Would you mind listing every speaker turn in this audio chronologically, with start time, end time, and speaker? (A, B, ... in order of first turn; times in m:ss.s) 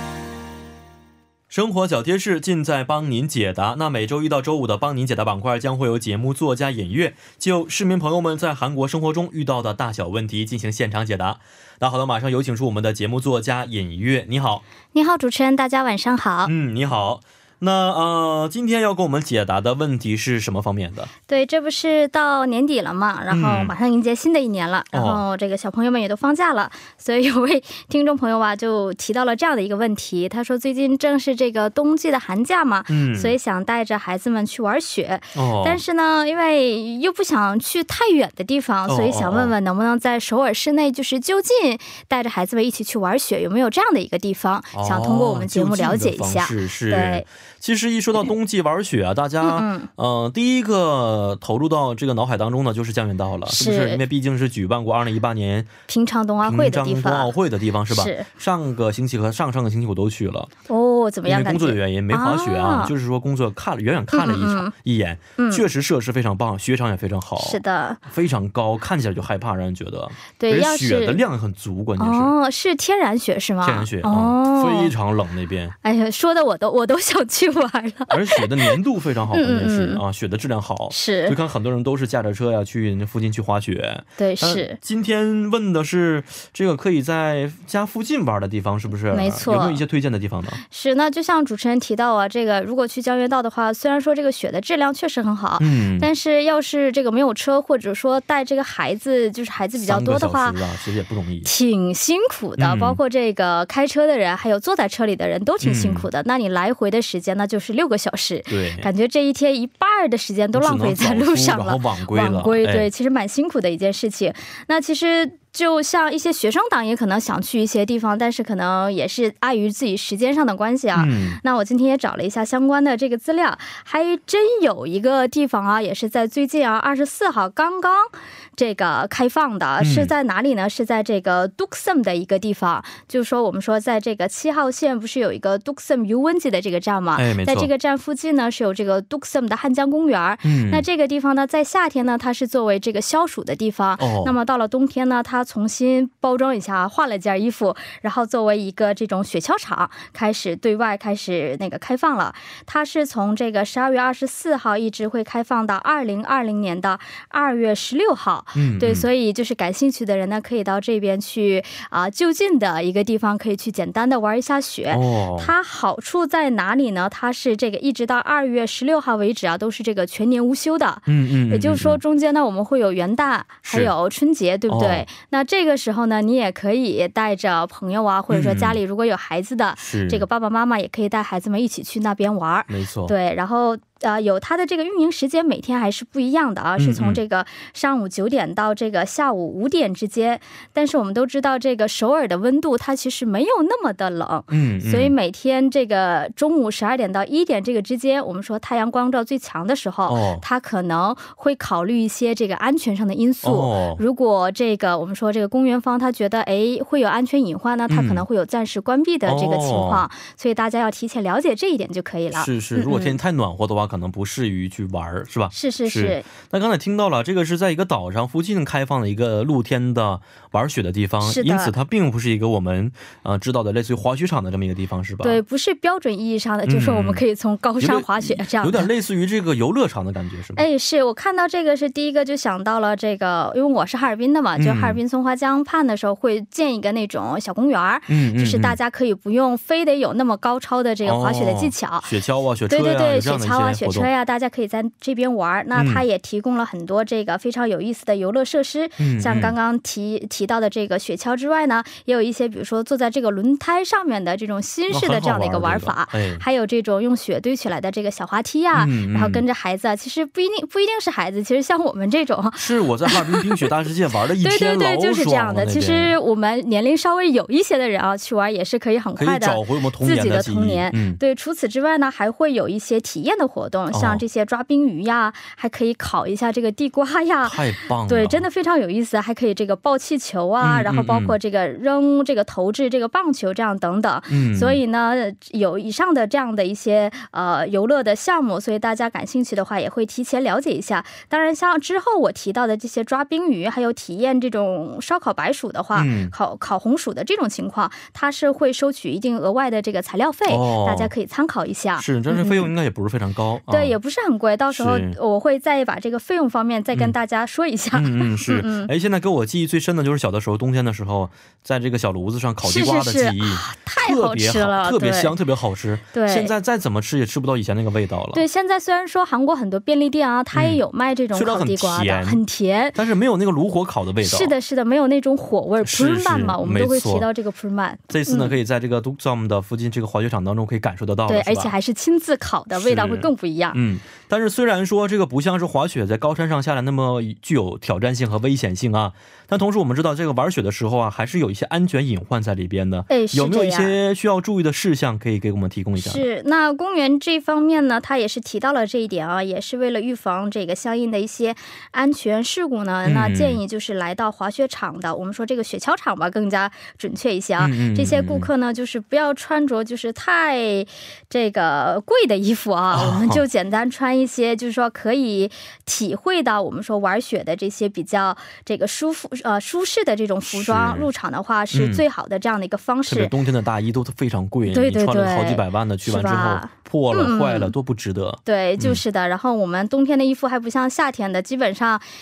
0:01.5-0:14.6 A
0:14.9-0:16.5 B
0:16.4-0:21.1 A
0:21.3-0:47.2 B
0:23.3-0:23.8 A
0:24.9-0:25.2 A
0:32.9-0:33.4 A
0:35.4-0:35.8 A
0:38.9-0:39.5 A
0:44.7-0:55.7 A
0:49.4-0:49.9 B
0:53.5-0:54.0 B
0:55.9-0:57.3 B
0:56.4-1:00.5 A
0:57.9-0:58.3 B
1:00.7-1:02.9 B
1:01.3-1:12.4 A
1:04.1-1:04.7 B
1:05.4-1:05.6 B
1:07.4-1:08.0 B
1:10.4-1:11.2 B
1:12.0-1:15.0 B
1:13.6-1:15.8 A
1:15.8-1:18.8 B
1:18.1-1:30.6 A
1:19.3-1:20.0 B
1:20.9-1:21.4 B
1:24.2-1:24.8 B
1:29.1-1:29.8 B
1:30.6-1:40.6 B
1:35.6-1:36.1 A
1:39.8-1:41.5 A
1:41.4-3:33.2 B
1:42.6-1:43.0 A
1:45.6-1:46.1 A
1:48.5-1:48.9 A
1:50.5-1:52.9 A
2:00.9-2:01.4 A
2:09.8-2:10.1 A
2:17.2-2:17.7 A
2:20.4-2:20.8 A
2:24.0-2:24.4 A
2:38.6-2:39.1 A
2:44.9-2:45.6 A
2:51.1-2:52.0 A
2:53.6-2:53.9 A
2:54.7-2:55.1 A
2:58.3-2:58.8 A
2:59.8-3:00.3 A
3:02.7-3:03.2 A
3:06.8-3:07.2 A
3:14.5-3:15.2 A
3:20.1-3:20.4 A
3:23.4-3:24.0 A
3:27.9-3:28.2 A
3:29.3-3:30.1 A
3:32.3-3:45.4 A
3:35.5-3:36.3 B
3:41.2-3:41.7 B
3:45.2-3:48.9 B
3:46.7-3:47.2 A
3:47.8-3:50.6 A
3:50.6-4:02.1 B
3:54.6-3:55.0 A
3:58.1-3:58.8 A
4:01.0-4:04.1 A
4:02.7-4:23.7 B
4:05.8-4:06.0 A
4:09.0-4:09.6 A
4:14.9-4:16.4 A
4:18.7-4:19.4 A
4:22.6-4:26.2 A
4:24.4-5:02.7 B
4:29.2-4:31.2 A
4:33.9-4:34.2 A
4:37.4-4:38.5 A
4:40.6-4:41.4 A
4:44.3-4:44.8 A
4:55.9-4:56.4 A
5:00.5-5:01.1 A
5:02.0-5:04.0 A
5:03.7-5:08.9 B
5:04.7-5:05.2 A
5:07.9-5:18.4 A
5:12.6-5:15.4 B
5:16.1-5:16.5 B
5:18.3-5:23.0 B
5:20.5-5:20.8 A
5:21.3-5:22.4 A
5:22.9-5:24.6 A
5:24.2-5:28.6 B
5:25.8-5:27.3 A
5:28.1-5:31.7 A
5:31.3-5:33.8 B
5:32.7-5:46.2 A
5:43.1-5:44.0 B
5:46.0-6:13.4 B
5:53.0-5:53.6 A
5:57.6-5:58.5 A
6:02.9-6:03.4 A
6:10.5-6:11.1 A
6:11.7-6:12.0 A
6:13.1-6:19.0 A
6:14.6-6:17.7 B
6:18.4-6:22.0 B